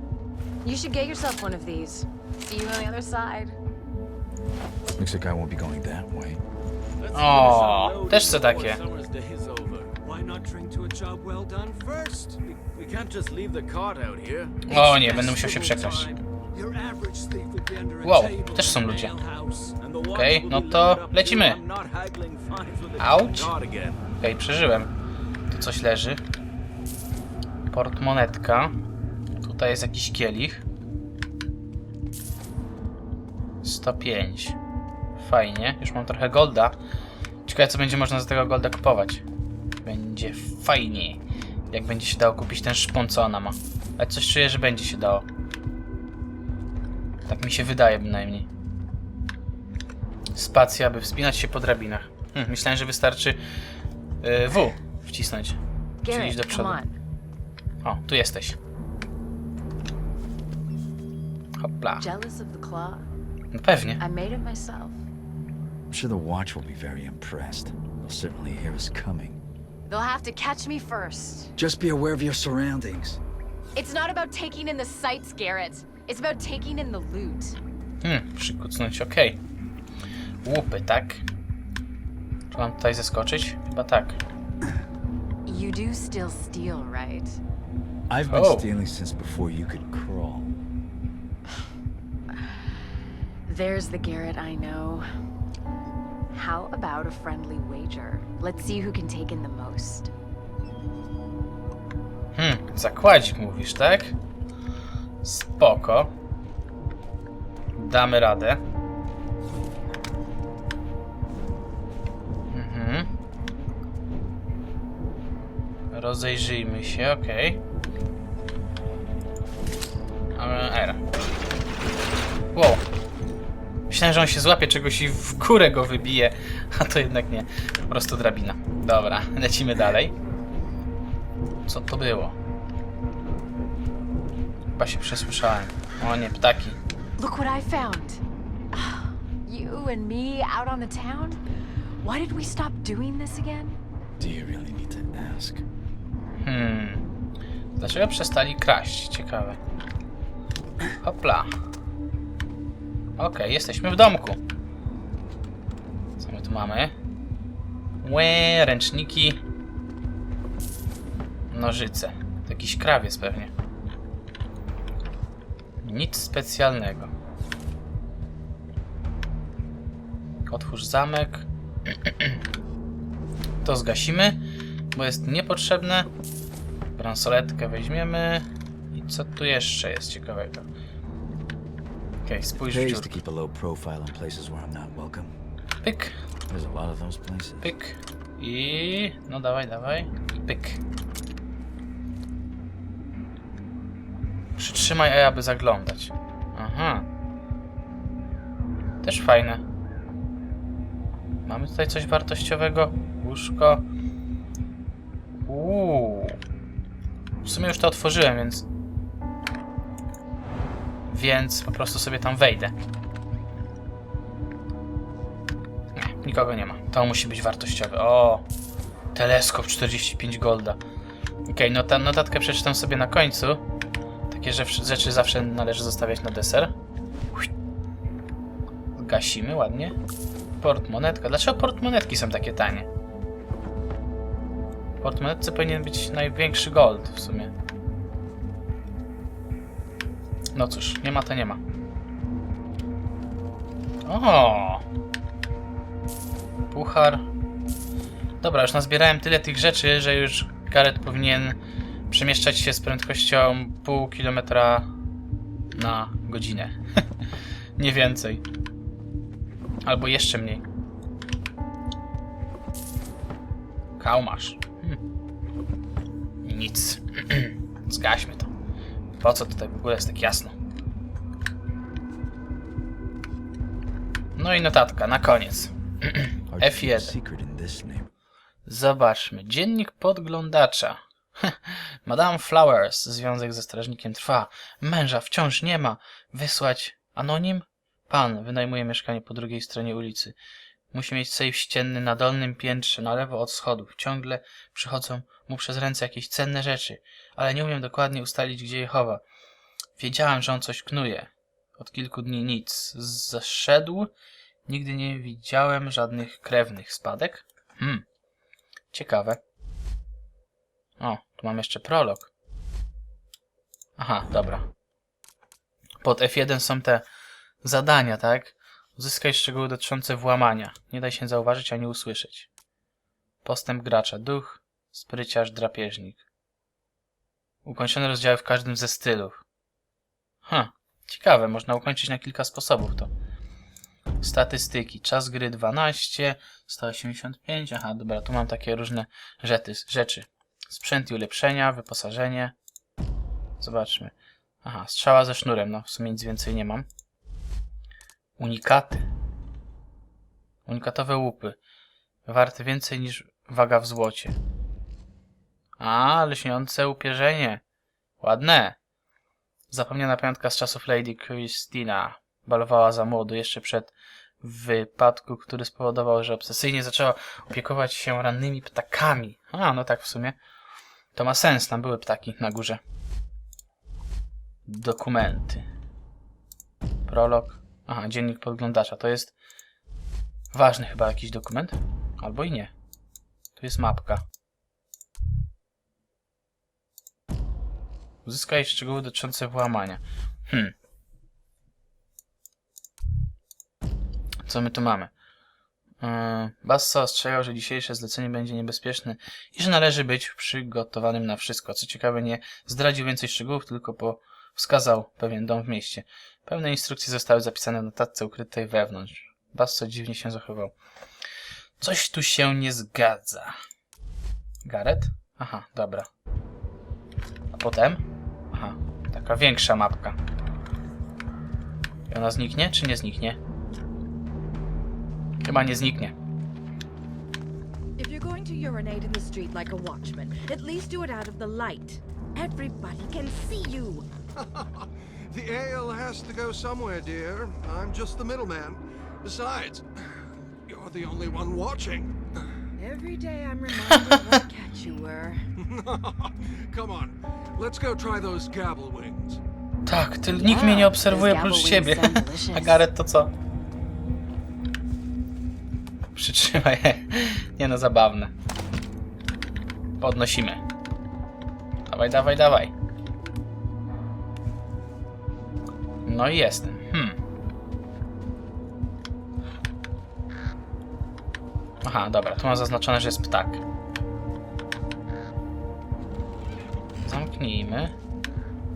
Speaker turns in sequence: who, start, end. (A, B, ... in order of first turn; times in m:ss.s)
0:00.6-0:03.6 A
0:05.0-0:06.4 B
0:07.0-0:09.9 C
0:07.1-0:08.8 D
0:10.0-0:12.4 E
0:12.4-0:16.2 C
0:14.7-0:16.1 D
0:16.5-0:19.8 E
0:18.0-0:19.1 D
0:19.8-0:24.0 C
0:20.1-0:21.6 D
0:23.0-0:23.5 D
0:24.2-0:24.9 D
0:25.5-0:26.2 D
0:27.7-0:28.8 D
0:29.4-0:30.6 D
0:33.6-0:34.6 D
0:35.2-0:36.8 D
0:37.4-0:39.2 D
0:39.8-0:45.2 D
0:47.3-0:48.5 D
0:50.3-0:53.4 D
0:54.2-0:56.8 D
0:56.0-0:57.0 A
0:57.8-0:58.6 D
1:01.6-1:02.0 D
1:02.0-1:03.1 A
1:03.5-1:04.0 D
1:04.0-1:05.0 A
1:05.9-1:09.4 B
1:09.8-1:11.5 A
1:11.6-1:13.2 B
1:13.7-1:17.6 A
1:18.0-1:19.4 D
1:20.4-1:21.2 D
1:22.5-1:24.2 D
1:25.4-1:27.4 A
1:28.1-1:30.6 B
1:28.3-1:28.7 D
1:33.4-1:35.1 A
1:36.3-1:40.1 A
1:42.3-1:44.1 D
1:45.2-1:46.1 D
1:47.8-1:48.6 D
1:52.5-1:53.1 D
1:55.9-1:57.6 D
2:00.4-2:01.0 D
2:02.5-2:02.8 D
2:03.9-2:10.1 D
2:11.6-2:12.4 D
2:14.7-2:16.8 D
2:17.2-2:21.4 A
2:22.0-2:23.8 A
2:24.2-2:25.6 B
2:26.4-2:27.0 D
2:27.8-2:29.6 D
2:31.0-2:31.5 D
2:33.2-2:34.4 D
2:36.2-2:36.9 D
2:38.0-2:39.4 D
2:41.5-2:43.5 D
2:45.8-2:47.1 D
2:50.5-2:52.3 D
2:53.6-2:54.4 D
2:54.9-2:56.1 D
2:57.0-3:00.7 D
3:02.2-3:03.1 D
3:02.6-3:05.3 B
3:05.8-3:06.2 D
3:06.5-3:07.7 B
3:07.6-3:10.8 D
3:14.6-3:17.0 D
3:19.0-3:19.6 D
3:21.4-3:23.8 D
3:25.4-3:26.4 D
3:27.4-3:28.6 D
3:31.1-3:32.7 D
3:35.9-3:38.4 D
3:39.1-3:40.8 D
3:41.4-3:43.6 D
3:44.3-3:46.7 D
3:49.0-3:50.0 D
3:50.6-3:52.9 D
3:55.0-3:57.5 D
4:00.5-4:01.6 D
4:04.0-4:04.8 D
4:06.7-4:07.2 D
4:08.4-4:11.6 D
4:12.1-4:14.9 D
4:15.7-4:16.8 D
4:17.8-4:18.4 D
4:19.8-4:20.6 D
4:24.0-4:25.0 D
4:26.4-4:28.5 D
4:29.2-4:30.5 D
4:34.4-4:37.2 D
4:36.5-4:38.1 B
4:38.6-4:50.4 D
4:50.9-4:59.2 D
5:00.0-5:04.1 D
5:04.6-5:08.0 D
5:08.9-5:09.4 D
5:11.0-5:12.3 D
5:14.0-5:14.6 D
5:16.0-5:17.0 D
5:17.6-5:22.5 D
5:23.4-5:26.2 D
5:27.6-5:29.4 D
5:30.4-5:33.1 D
5:34.2-5:42.5 D
5:43.6-5:46.8 D
5:48.4-5:49.0 D
5:50.6-5:51.6 D
5:52.2-5:54.4 D
5:55.8-5:57.6 D
5:58.2-5:58.8 D
5:59.7-6:10.4 D
6:11.1-6:12.8 D
6:14.6-6:15.6 D
6:17.1-6:19.3 D
6:20.5-6:22.7 D
6:23.6-6:24.2 D
6:28.2-6:30.7 D
6:34.4-6:35.1 D
6:36.0-6:50.7 D
6:51.8-6:53.6 D
6:54.6-6:56.1 D
6:57.5-7:00.2 D
7:02.1-7:03.4 D
7:05.4-7:06.1 D
7:08.0-7:14.1 F
7:14.4-7:22.2 E
7:22.8-7:25.4 A
7:25.6-7:29.4 E
7:29.8-7:33.3 D
7:30.3-7:32.8 A
7:36.1-7:38.3 D
7:40.0-7:40.6 D
7:41.9-7:42.7 D
7:46.0-7:47.2 D
7:51.8-7:53.6 D
7:57.0-7:57.9 D